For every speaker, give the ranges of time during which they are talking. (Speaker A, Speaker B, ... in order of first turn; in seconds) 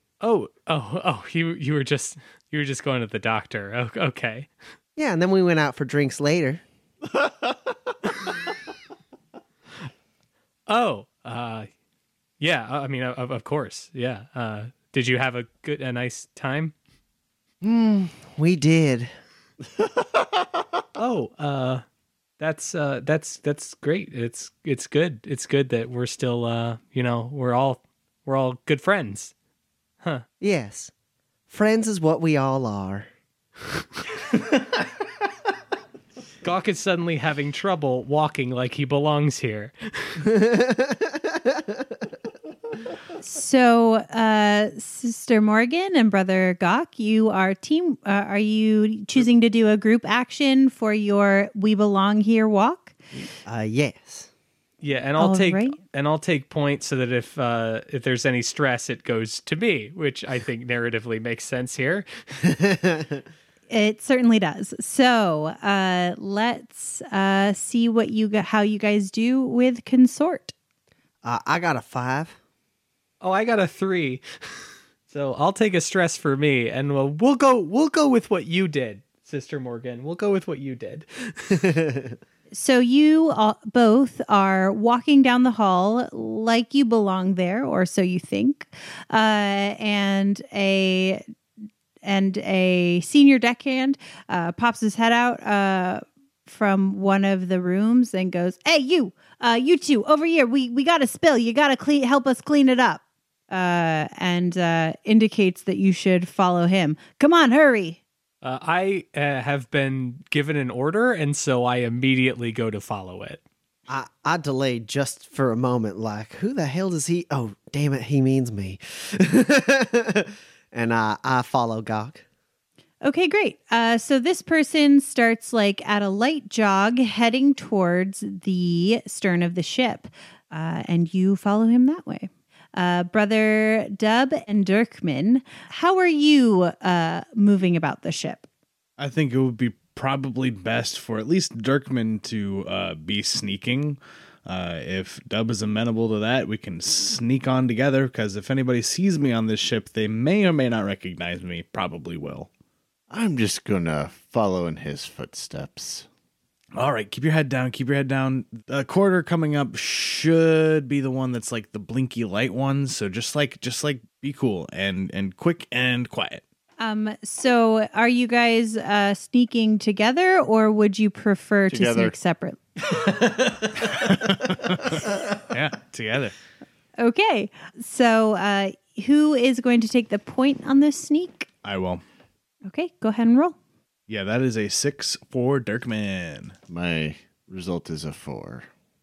Speaker A: 0.2-4.5, 10.7-11.7, 12.4-16.7, 21.0-21.8, 22.4-29.3, 36.4-40.2, 54.8-62.1, 73.2-81.6, 108.4-113.4
Speaker B: 5.0-6.6, 17.6-19.1, 30.4-30.9, 31.5-33.1, 40.3-41.7, 53.5-54.3, 62.5-63.2, 71.2-72.4, 81.6-82.2, 113.9-122.2
Speaker C: 43.2-53.0, 55.2-55.8, 63.7-70.5, 82.5-91.2, 92.0-108.0, 123.0-138.5, 166.8-172.6, 177.0-181.5, 182.7-183.6
Speaker D: 139.0-152.5, 156.8-166.4, 173.9-176.3, 181.6-182.0, 184.1-186.6
Speaker E: 153.1-156.1, 171.7-172.1, 186.7-188.7